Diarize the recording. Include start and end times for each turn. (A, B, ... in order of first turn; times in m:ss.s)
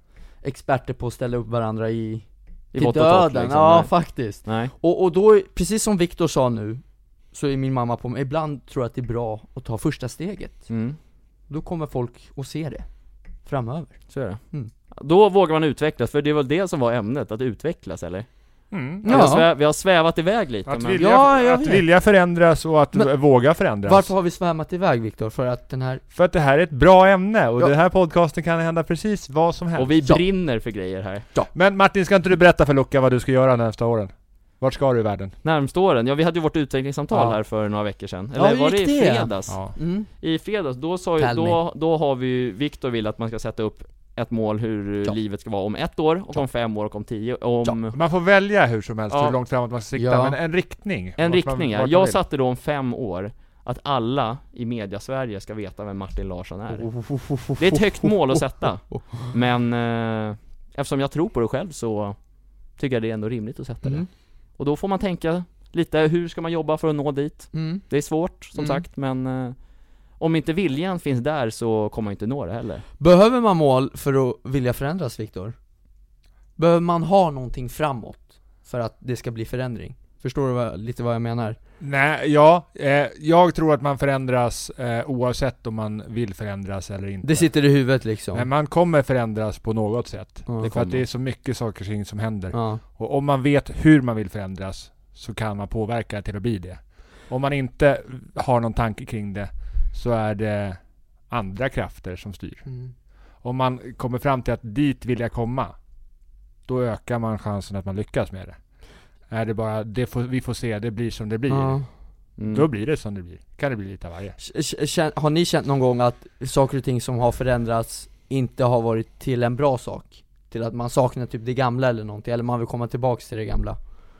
0:00.4-0:10.7 A
0:02.7-0:03.9 B
0:04.4-0:04.7 B
0:10.7-0:11.0 B
0:11.5-0:12.8 A
0:13.4-0:14.0 A
0:14.1-0:14.4 B
0:14.9-0:18.3 B
0:18.7-0:19.2 C
0:19.0-0:19.5 A
0:19.0-0:21.0 B
0:20.6-0:24.1 C
0:21.0-0:21.8 A
0:23.8-0:26.0 A
0:26.1-0:30.0 C
0:29.8-0:31.3 B
0:31.5-0:35.3 C
0:35.4-0:48.0 B
0:37.1-0:37.4 C
0:38.3-0:40.1 A
0:39.5-0:39.7 C
0:41.2-0:41.6 A
0:47.6-0:52.2 C
0:49.1-0:49.4 B
0:49.9-0:50.4 A
0:51.2-0:56.9 B
0:56.7-0:58.4 A
0:57.6-1:02.2 B
0:58.9-0:59.3 A
1:02.7-1:09.6 B
1:07.5-1:07.8 A
1:08.5-1:08.8 A
1:10.2-1:12.8 B
1:13.0-1:15.6 A
1:16.6-1:21.6 A
1:21.8-1:27.5 C
1:27.2-1:28.5 A
1:28.3-1:40.8 C
1:30.5-1:31.0 A
1:32.5-1:32.8 A
1:41.3-1:42.6 C
1:42.7-1:42.9 A
1:43.4-1:45.7 C
1:46.7-1:48.6 C
1:49.3-1:51.8 C
1:51.5-1:51.9 A
1:52.4-1:52.6 B
1:52.5-1:54.4 C
1:54.4-2:03.8 A